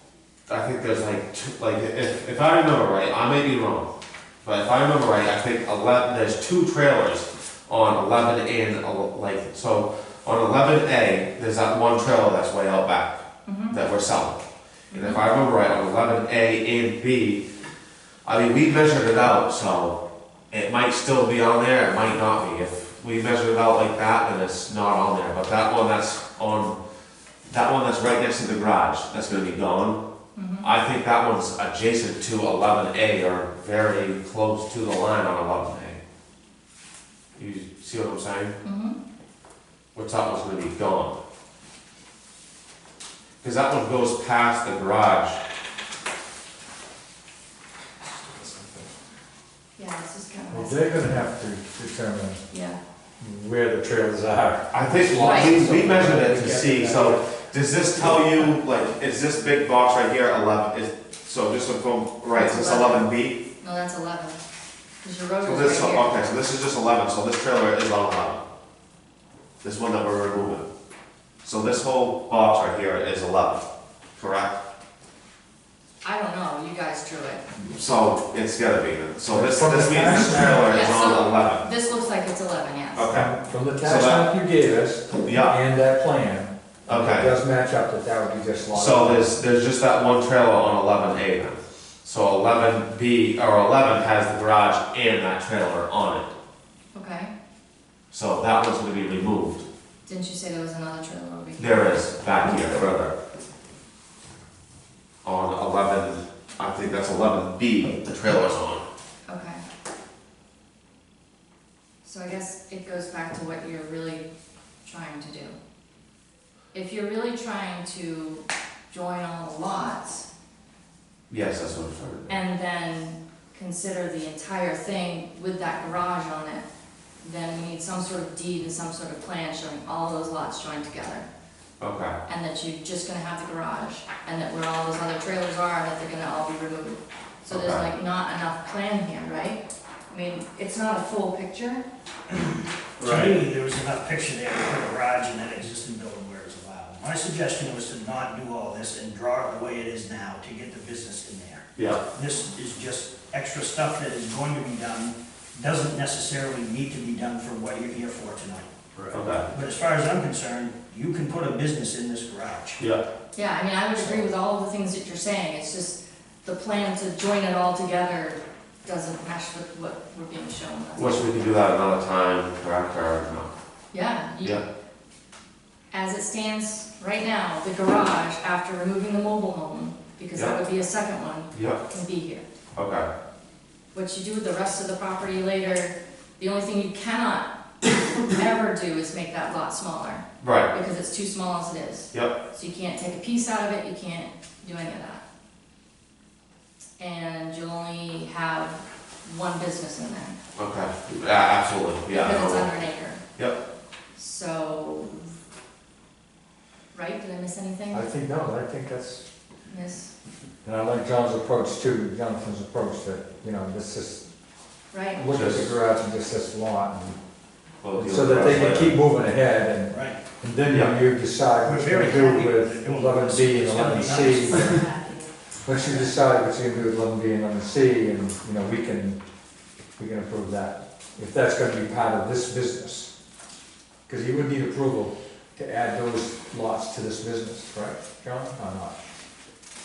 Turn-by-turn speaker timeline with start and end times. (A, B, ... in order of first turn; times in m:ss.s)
0:00.5-0:03.9 A
0:04.4-0:17.4 A
0:13.5-0:13.7 B
0:14.9-0:15.2 B
0:18.2-0:20.0 A
0:20.5-0:26.8 A
0:27.5-0:30.0 A
0:30.4-0:30.6 B
0:30.6-0:36.0 A
0:37.4-0:38.5 A
0:38.6-0:39.0 B
0:40.0-0:41.2 A
0:43.4-0:45.4 A
0:48.1-0:48.9 C
0:49.8-0:50.8 B
0:50.5-0:52.4 C
0:52.5-0:52.8 B
0:53.2-0:57.3 C
0:54.7-1:03.4 A
0:55.3-0:55.5 B
0:57.8-0:58.5 C
1:02.3-1:03.0 B
1:03.6-1:04.4 B
1:05.0-1:06.1 B
1:05.4-1:08.4 A
1:09.6-1:10.7 A
1:11.4-1:13.6 A
1:14.2-1:14.6 A
1:16.0-1:17.5 B
1:17.7-1:21.6 A
1:19.3-1:21.5 C
1:20.7-1:23.0 B
1:23.0-1:24.3 A
1:23.1-1:29.3 C
1:25.2-1:25.6 A
1:26.9-1:27.3 A
1:28.7-1:36.3 A
1:36.9-1:37.3 B
1:38.1-1:39.6 A
1:40.1-1:41.8 B
1:41.6-1:43.1 A
1:45.2-1:48.8 A
1:49.3-1:49.6 B
1:52.0-1:54.2 B
1:54.8-1:55.6 B
1:56.7-2:00.3 B
2:01.3-2:02.4 A
2:02.3-2:06.7 B
2:07.2-2:11.3 B
2:11.8-2:12.2 A
2:12.3-2:21.8 B
2:17.5-2:17.8 A
2:23.0-2:23.4 A
2:23.0-2:42.8 D
2:39.1-2:39.5 A
2:43.4-2:51.2 B
2:51.0-2:53.5 A
2:53.9-2:54.6 B
2:55.9-3:02.4 B
3:01.5-3:01.8 A
3:02.8-3:03.1 A
3:03.9-3:07.5 B
3:08.2-3:15.2 B
3:10.4-3:10.7 A
3:12.1-3:12.4 A
3:17.0-3:20.4 B
3:20.6-3:22.7 A
3:22.1-3:23.2 B
3:24.2-3:25.3 B
3:26.9-3:28.0 B
3:27.9-3:29.3 C
3:29.7-3:30.1 B
3:30.6-3:34.3 C
3:34.9-3:35.2 B
3:35.1-3:37.2 C
3:35.3-3:35.8 A
3:37.8-3:39.0 A
3:38.0-3:44.9 C
3:39.9-3:40.2 D
3:40.7-3:41.0 A
3:41.6-3:44.9 D
3:44.6-3:45.2 B
3:45.6-3:49.2 C
3:50.0-3:53.1 C
3:54.1-3:59.0 C